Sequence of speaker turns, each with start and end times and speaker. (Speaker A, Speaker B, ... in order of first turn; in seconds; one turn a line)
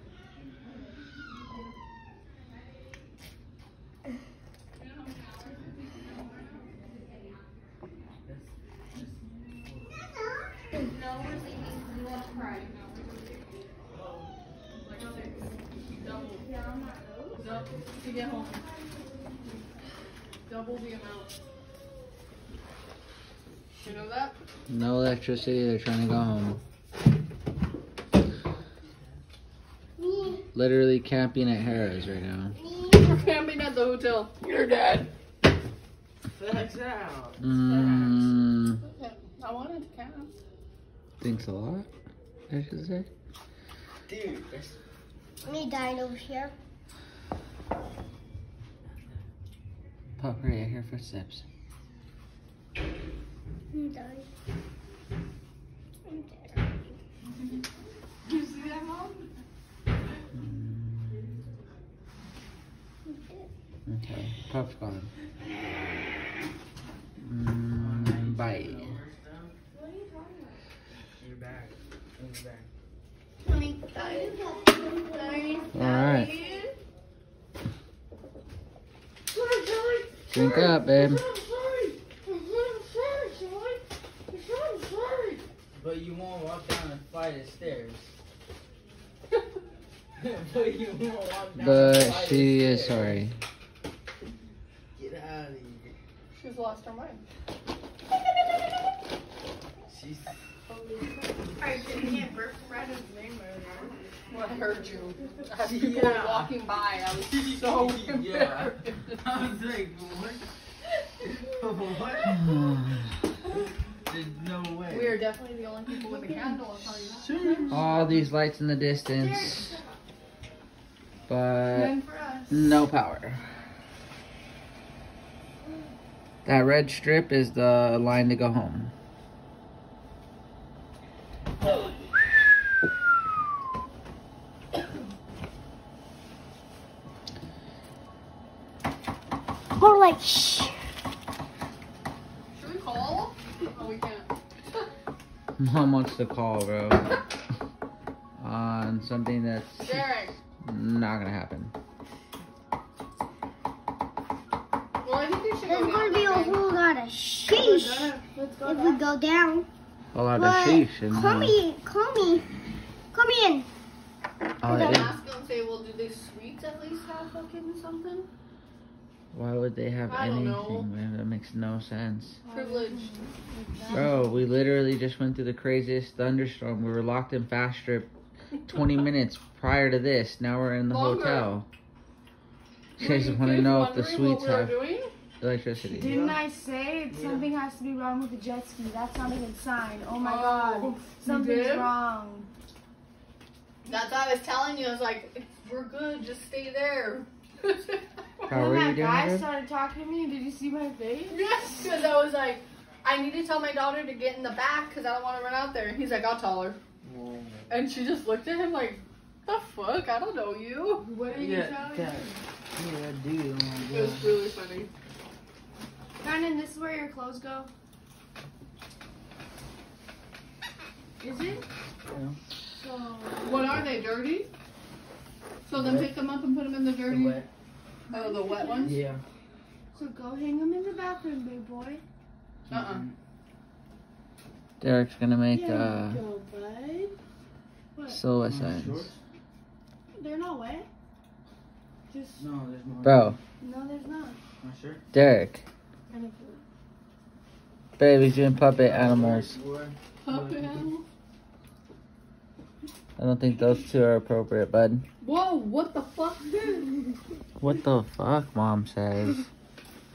Speaker A: 4.8-6.7
Speaker B: 8.2-9.8
Speaker C: 10.9-13.1
Speaker A: 14.8-16.5
Speaker C: 16.3-17.4
Speaker A: 17.4-18.6
Speaker A: 20.5-21.3
Speaker A: 23.8-24.3
Speaker D: 24.7-26.6
Speaker E: 30.0-30.4
Speaker D: 30.5-32.5
Speaker E: 32.6-33.2
Speaker A: 32.9-35.1
Speaker B: 36.3-38.3
Speaker D: 37.4-38.8
Speaker A: 37.7-38.2
Speaker A: 38.8-40.3
Speaker D: 41.2-41.9
Speaker D: 42.5-43.1
Speaker B: 44.0-44.8
Speaker E: 45.4-46.5
Speaker D: 50.2-51.4
Speaker E: 53.7-54.3
Speaker E: 56.0-56.9
Speaker C: 58.2-59.3
Speaker D: 60.3-61.2
Speaker E: 63.0-63.5
Speaker D: 63.9-65.1
Speaker D: 67.2-68.9
Speaker B: 67.7-69.5
Speaker C: 69.7-70.6
Speaker B: 71.2-72.7
Speaker C: 73.7-76.7
Speaker E: 74.0-75.3
Speaker D: 75.7-76.3
Speaker A: 76.0-76.4
Speaker C: 79.3-81.6
Speaker D: 80.3-81.2
Speaker A: 80.5-81.0
Speaker A: 81.5-82.0
Speaker C: 82.3-83.8
Speaker C: 84.3-85.4
Speaker B: 85.7-88.1
Speaker B: 90.2-93.2
Speaker D: 91.6-93.3
Speaker B: 94.9-95.9
Speaker A: 96.3-97.2
Speaker B: 99.9-100.4
Speaker C: 100.7-104.6
Speaker A: 104.3-109.2
Speaker B: 105.5-106.6
Speaker B: 107.3-110.4
Speaker B: 111.2-112.5
Speaker D: 112.3-113.1
Speaker B: 114.0-115.2
Speaker A: 114.9-117.7
Speaker C: 116.0-116.6
Speaker B: 117.2-117.9
Speaker D: 117.7-119.8
Speaker D: 121.3-122.0
Speaker C: 121.8-122.1
Speaker A: 121.8-122.7
Speaker D: 122.5-123.4
Speaker D: 126.4-128.9
Speaker E: 139.7-140.7
Speaker A: 142.5-144.3
Speaker D: 145.6-147.2
Speaker D: 148.4-151.7
Speaker A: 149.8-150.3
Speaker A: 155.0-156.6
Speaker E: 155.7-159.7
Speaker A: 157.5-158.2
Speaker C: 157.9-159.0
Speaker D: 160.1-161.6
Speaker E: 160.3-162.5
Speaker E: 163.1-163.7
Speaker D: 164.6-165.1
Speaker E: 164.6-165.0
Speaker A: 164.6-168.3
Speaker D: 169.3-172.4
Speaker A: 170.1-170.9
Speaker C: 172.4-174.2
Speaker A: 172.5-173.1
Speaker D: 173.9-178.1
Speaker D: 178.6-181.7
Speaker A: 180.9-181.5
Speaker D: 183.0-184.9
Speaker A: 183.0-185.1
Speaker D: 185.4-186.1
Speaker C: 185.9-192.5
Speaker B: 185.9-186.4
Speaker B: 187.1-187.5
Speaker A: 190.2-191.9
Speaker A: 193.8-198.6
Speaker C: 198.4-201.4
Speaker D: 198.5-199.5
Speaker A: 201.3-206.8
Speaker B: 207.0-207.7
Speaker A: 207.7-211.1
Speaker C: 211.0-212.4
Speaker B: 211.3-214.4
Speaker A: 213.8-214.9
Speaker C: 216.2-217.7
Speaker C: 221.2-221.6
Speaker B: 222.1-222.4
Speaker C: 222.7-223.8
Speaker A: 223.4-224.5
Speaker A: 225.6-227.4
Speaker B: 225.7-226.2
Speaker B: 227.0-227.5
Speaker C: 228.1-229.0
Speaker A: 228.1-229.0
Speaker B: 228.7-229.2
Speaker C: 229.9-232.0
Speaker B: 232.7-233.1
Speaker A: 232.7-233.0
Speaker D: 234.8-236.2
Speaker C: 235.5-237.1
Speaker C: 237.9-238.2
Speaker D: 238.1-239.1
Speaker B: 238.4-239.2
Speaker C: 240.2-240.9
Speaker C: 242.1-242.5
Speaker B: 242.4-243.3
Speaker D: 243.0-243.4
Speaker C: 243.6-244.4
Speaker B: 244.6-245.0
Speaker D: 245.1-245.6
Speaker A: 246.1-246.6
Speaker D: 248.0-249.6
Speaker B: 248.8-250.9
Speaker A: 250.2-251.0
Speaker D: 253.2-255.0
Speaker A: 255.2-256.9
Speaker D: 257.6-259.4